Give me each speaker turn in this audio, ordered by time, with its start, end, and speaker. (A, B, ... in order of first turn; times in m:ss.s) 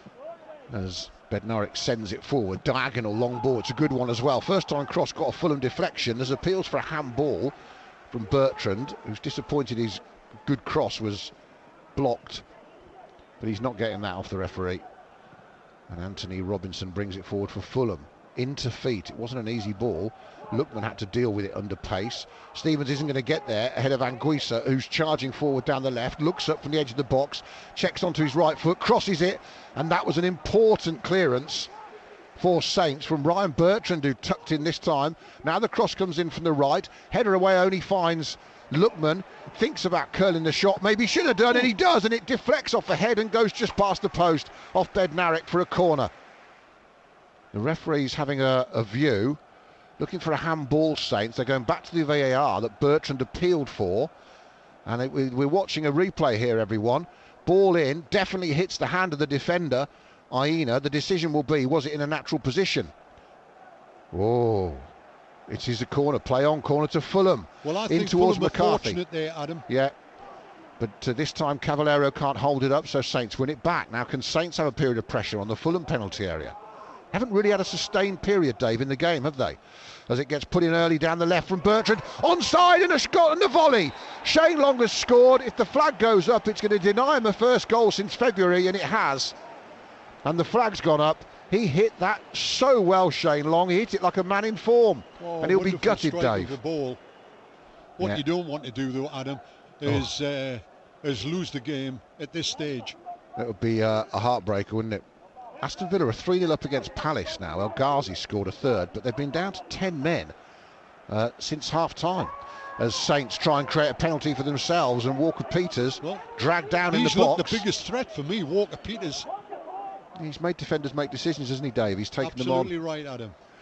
0:00.7-0:07.5 A
0:08.1-0:11.3 A
0:12.0-0:12.4 A
0:13.4-0:14.8 A
0:15.9-0:31.7 A
0:32.4-0:46.1 A
0:47.5-0:49.4 A
0:50.0-0:54.1 A
0:54.9-1:02.9 A
1:04.1-1:04.9 A
1:05.5-1:09.0 A
1:07.6-1:09.6 B
1:09.7-1:09.9 A
1:10.8-1:16.6 A
1:17.1-1:29.4 A
1:30.2-1:36.6 A
1:35.2-1:37.0 B
1:38.0-1:43.0 B
1:43.4-1:45.0 A
1:45.6-1:50.3 A
1:51.1-1:57.7 A
1:56.9-1:59.3 B
2:00.2-2:02.7 A
2:02.2-2:03.4 B